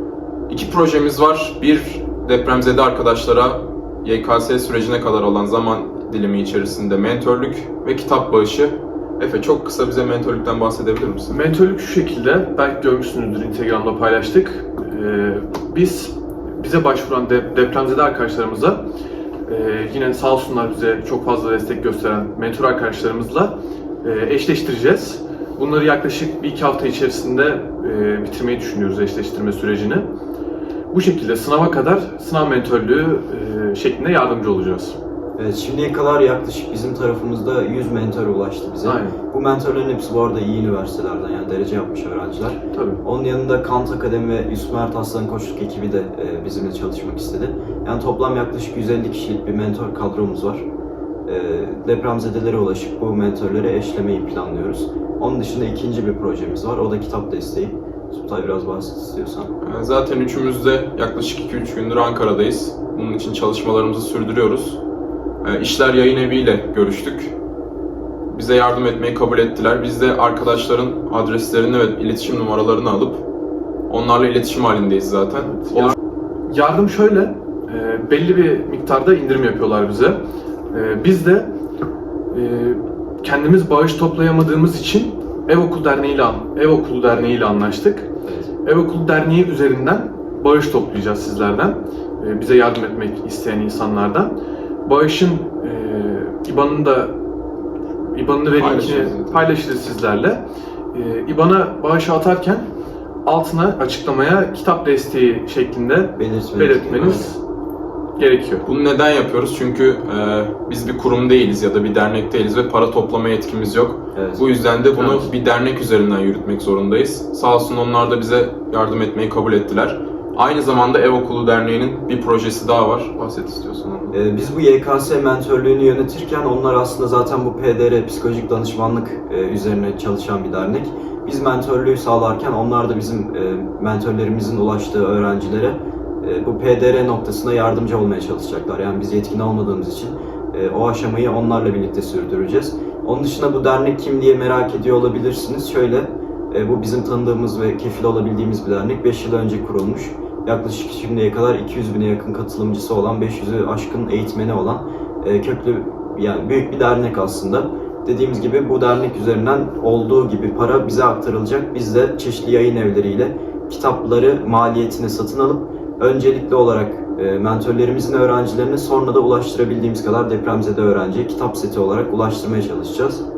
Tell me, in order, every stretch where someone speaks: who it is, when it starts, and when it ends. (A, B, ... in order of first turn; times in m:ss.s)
0:00.5-0:11.4 A
0:11.3-0:18.8 B
0:19.5-0:30.1 B
0:30.9-0:35.0 B
0:35.4-0:50.6 C
0:38.8-0:39.2 B
0:42.7-0:43.0 B
0:51.2-0:59.5 C
0:59.6-1:04.8 A
1:05.4-1:07.3 A
1:08.3-1:13.2 A
1:13.9-1:16.0 A
1:15.5-1:15.9 B
1:16.5-1:20.2 B
1:20.7-1:21.5 B
1:22.3-1:28.1 B
1:28.2-1:28.5 C
1:28.6-1:34.3 B
1:34.8-1:37.2 B
1:38.1-1:40.4 B
1:38.5-1:39.5 A
1:40.9-1:42.7 B
1:43.2-1:47.4 B
1:46.2-1:47.3 C
1:48.2-1:48.6 B
1:48.6-2:04.2 A
1:54.1-1:54.4 C
1:54.9-1:55.3 B
2:04.1-2:53.2 C